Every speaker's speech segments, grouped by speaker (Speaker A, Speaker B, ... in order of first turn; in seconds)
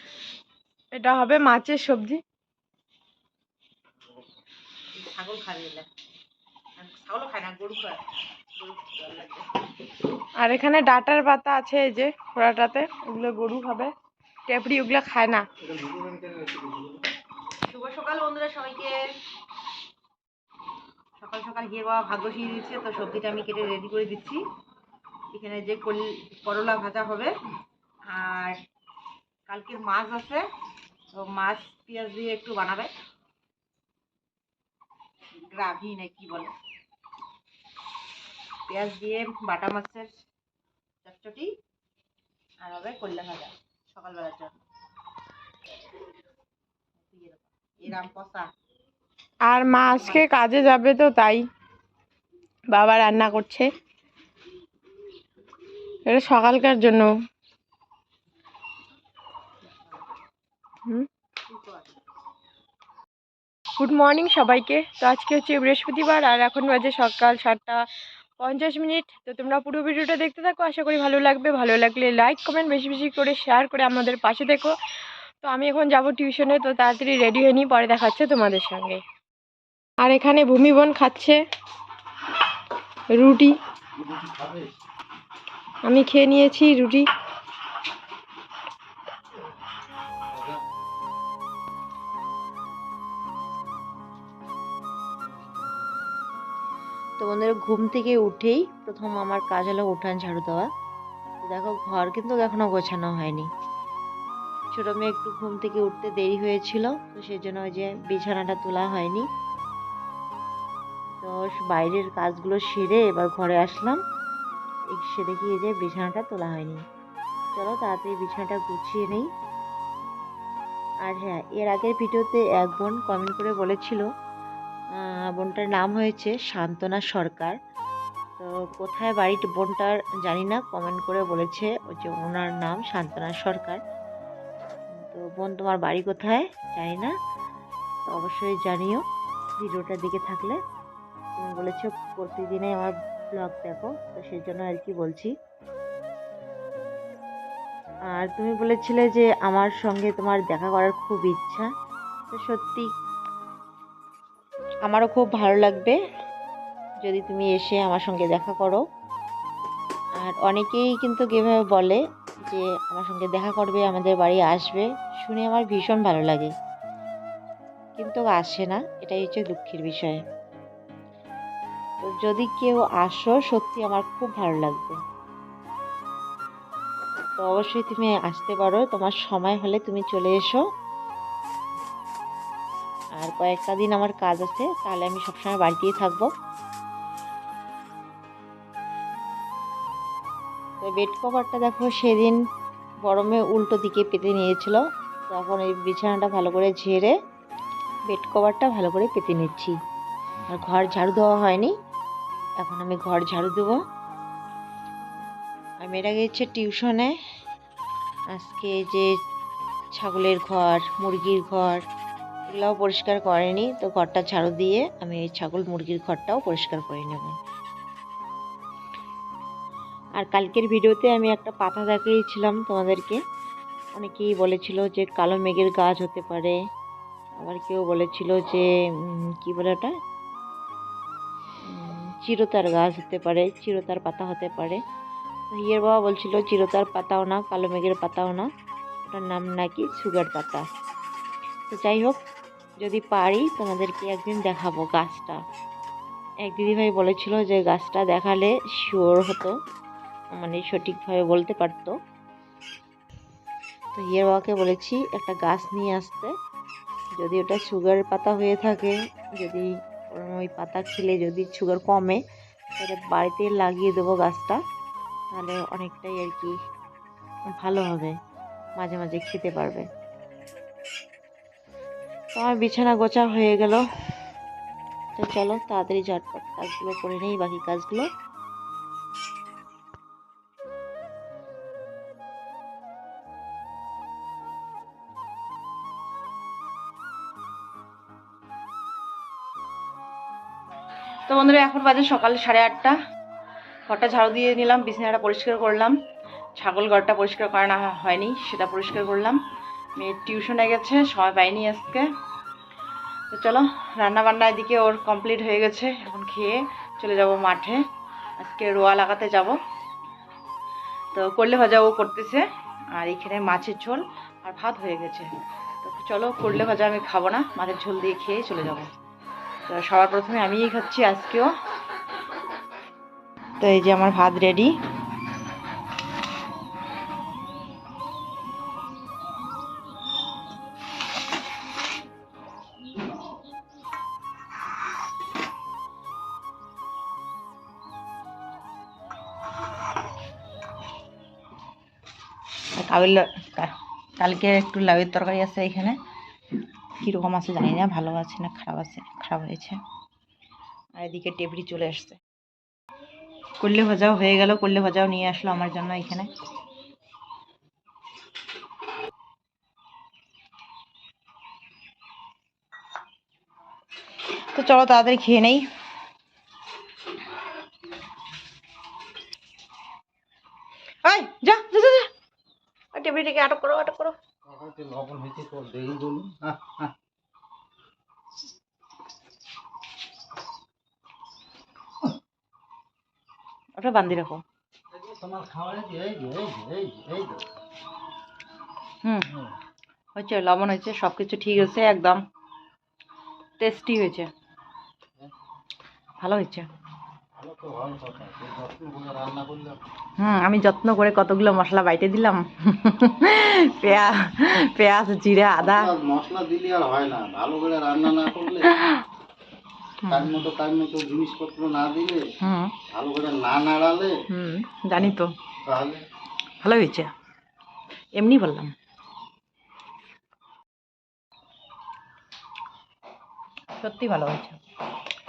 Speaker A: 0.9-2.2, 10.4-13.9, 14.5-15.4, 49.5-51.5, 52.7-53.7, 56.1-57.1, 63.8-67.8, 68.4-74.7, 75.4-79.0, 80.0-81.4, 83.1-83.5, 85.8-87.1
Speaker B: 5.0-5.8, 6.8-8.0, 8.6-9.4, 17.7-19.0, 21.2-24.4, 25.3-27.3, 28.1-28.5, 29.5-30.4, 31.1-32.9, 35.5-36.5, 38.7-40.1, 41.0-41.5, 42.6-44.6, 47.0-48.5, 49.9-50.2, 61.5-61.8, 97.2-100.7, 101.4-103.5, 104.7-109.2, 111.2-114.0, 114.9-116.8, 117.5-119.3, 121.0-124.0, 125.0-127.5, 128.4-133.8, 135.0-137.1, 138.1-139.0, 139.6-140.6, 141.4-145.3, 148.1-151.7, 152.3-152.9, 154.8-155.9, 157.0-158.8, 160.2-166.5, 168.0-170.2, 172.0-174.9, 177.4-180.6, 183.2-186.3, 190.8-192.3, 193.1-197.1, 198.1-199.7, 200.5-201.7, 202.6-203.8, 205.8-207.1, 208.3-209.1, 209.9-211.8, 212.5-217.3, 220.2-223.2, 224.0-226.5, 227.4-229.9, 231.7-234.8, 235.5-238.5, 239.0-240.7, 241.7-242.2, 242.8-245.4, 246.4-249.5, 250.3-251.9, 253.9-256.3, 257.2-262.2, 262.8-264.6, 265.3-266.5, 267.5-268.1, 268.8-269.9, 272.3-273.8, 275.1-278.1, 291.3-292.9, 293.9-295.9, 296.6-299.4, 300.0-302.1, 303.3-307.8, 308.4-309.6, 311.1-315.3, 315.8-318.9, 319.7-321.5, 323.6-324.7, 342.8-346.0, 347.0-349.7, 351.0-352.2, 353.6-356.3, 364.5-365.6, 371.0-372.1, 372.9-374.1, 383.8-384.4, 390.1-392.2, 393.6-394.3, 396.2-396.7, 400.2-405.9, 408.7-409.0, 410.0-410.4, 412.4-412.7, 414.3-415.3, 416.6-417.1, 418.1-418.7, 423.8-424.6
Speaker C: 84.0-84.7, 90.3-90.6, 374.4-376.9, 384.9-387.4, 397.4-399.8, 405.6-408.7, 410.1-412.2, 412.9-414.1, 415.6-416.0